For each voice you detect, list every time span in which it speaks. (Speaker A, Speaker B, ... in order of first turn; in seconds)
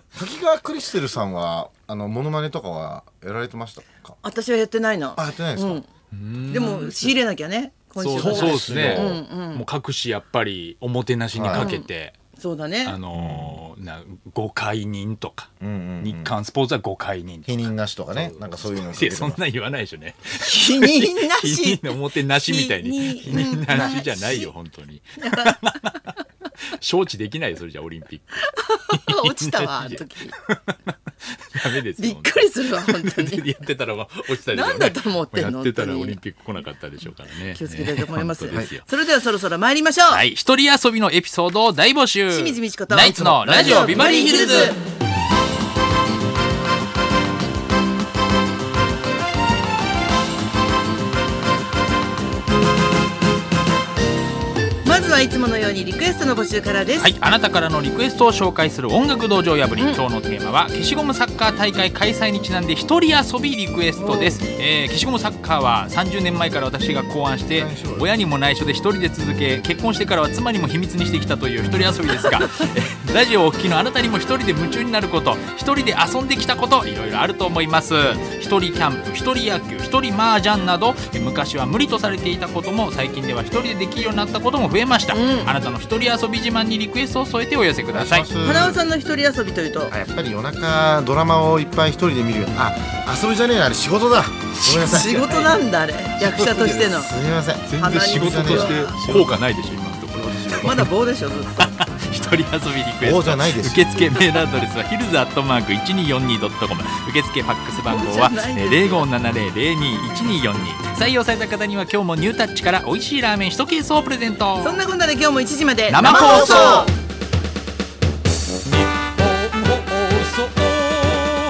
Speaker A: 0.1-4.2, 5.1-5.8, 8.2-9.2, 11.3-11.7, 13.1-13.6, 15.6-16.3, 17.5-19.4, 43.0-43.9, 67.5-68.1, 87.9-88.8, 89.9-95.2, 96.9-98.9, 100.1-100.8, 103.0-103.8, 116.0-116.9
Speaker B: 4.2-5.8, 6.5-9.6, 11.5-11.9, 12.4-13.0, 20.3-24.5, 25.2-26.0, 28.5-30.3, 32.0-33.5, 34.5-36.2, 37.5-40.2, 42.3-44.8, 54.8-57.1, 64.0-64.3, 85.1-85.5, 88.4-89.9, 94.7-97.1, 97.8-99.3, 100.6-101.8, 107.8-109.1, 114.6-116.9
Speaker C: 6.1-7.1, 8.0-12.1, 12.8-15.5, 16.0-26.0, 26.7-30.7, 31.5-38.9, 40.1-44.8, 57.0-88.3, 94.6-97.0, 97.6-100.9, 101.6-114.8, 115.9-116.9, 119.0-121.3